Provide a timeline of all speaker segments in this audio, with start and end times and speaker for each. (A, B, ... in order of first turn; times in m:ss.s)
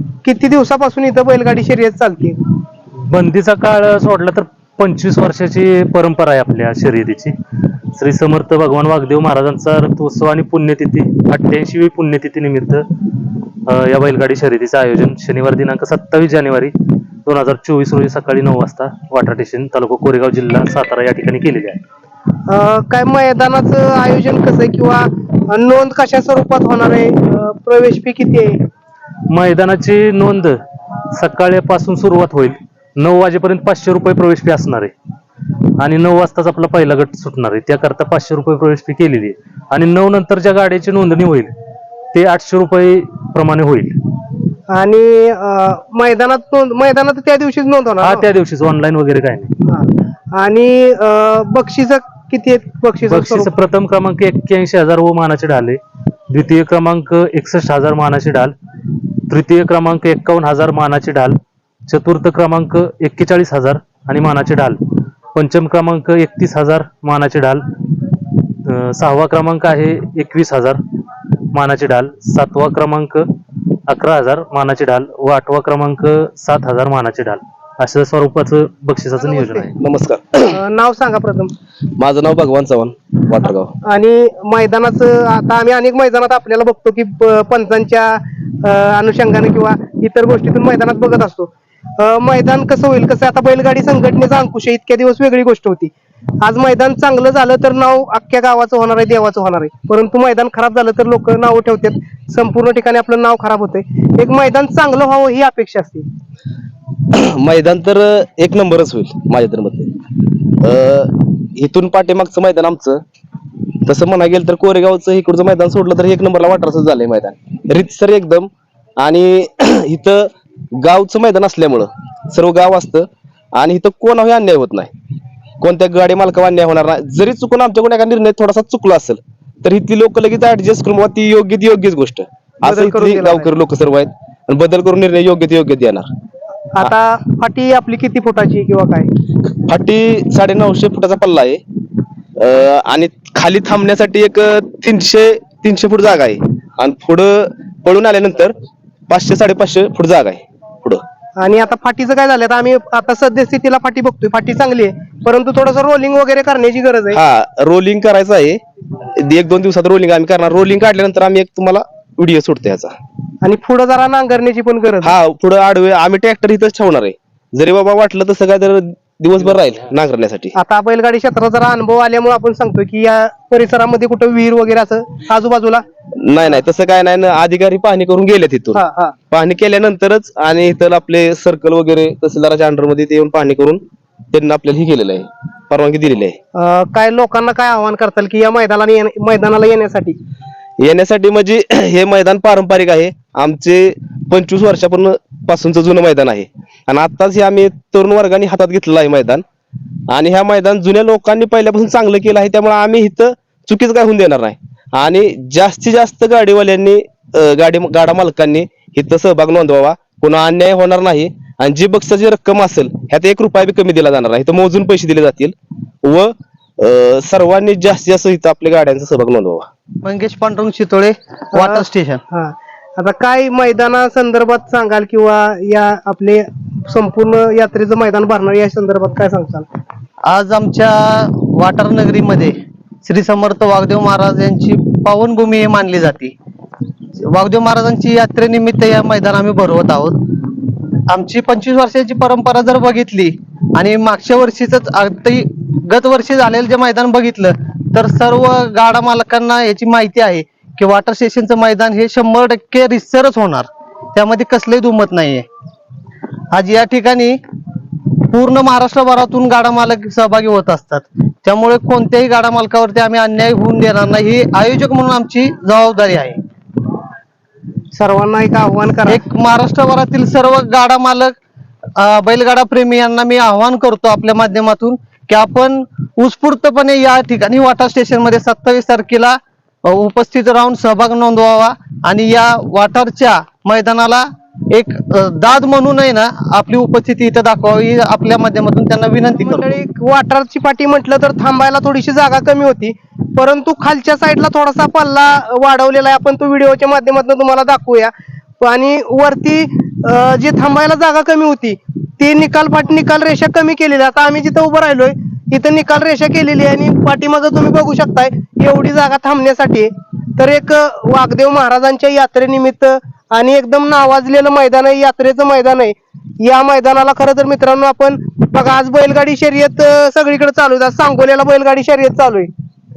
0:00.2-0:02.4 A
0:03.1-0:07.4 B
0:08.0-0:12.8 B
0:13.7-0:16.7 B
0:17.2-0:21.8 B
0:22.5-0:28.6 A
0:29.3-0:30.6 B
0:31.1-0:34.9 B
0:35.8-0:41.5 B
0:42.1-0:44.0 B
0:44.7-0:48.3 A
0:48.0-0:49.5 B
0:49.6-0:53.5 A
0:53.1-0:55.8 B
0:56.3-0:58.5 B
0:59.3-1:04.8 B
1:05.4-1:07.7 B
1:08.6-1:10.8 B
1:11.5-1:13.3 B
1:13.9-1:19.8 B
1:19.2-1:19.7 A
1:19.8-1:20.6 C
1:20.5-1:21.5 A
1:22.0-1:23.7 C
1:23.8-1:46.1 A
1:47.1-1:49.9 C
1:50.6-1:53.0 C
1:53.9-2:04.9 C
2:05.6-2:16.1 C
2:12.6-2:13.5 A
2:16.7-2:19.1 A
2:19.7-2:21.6 C
2:22.4-2:28.6 C
2:29.1-2:31.0 C
2:31.4-2:37.2 A
2:37.1-2:38.6 C
2:39.2-2:43.0 C
2:43.4-2:45.1 A
2:45.0-2:50.6 C
2:50.6-2:55.8 A
2:56.2-3:06.4 C
2:58.7-2:59.2 A
3:06.6-3:10.2 A
3:10.8-3:19.4 C
3:20.1-3:39.7 C
3:40.0-3:42.2 D
3:41.5-3:49.7 A
3:50.3-3:56.3 D
3:57.2-4:00.2 D
4:01.1-4:15.4 D
4:16.5-4:17.4 D
4:18.3-4:26.4 D
4:27.9-4:29.2 A
4:29.1-4:31.4 D
4:32.0-4:49.8 D
4:49.4-5:22.5 A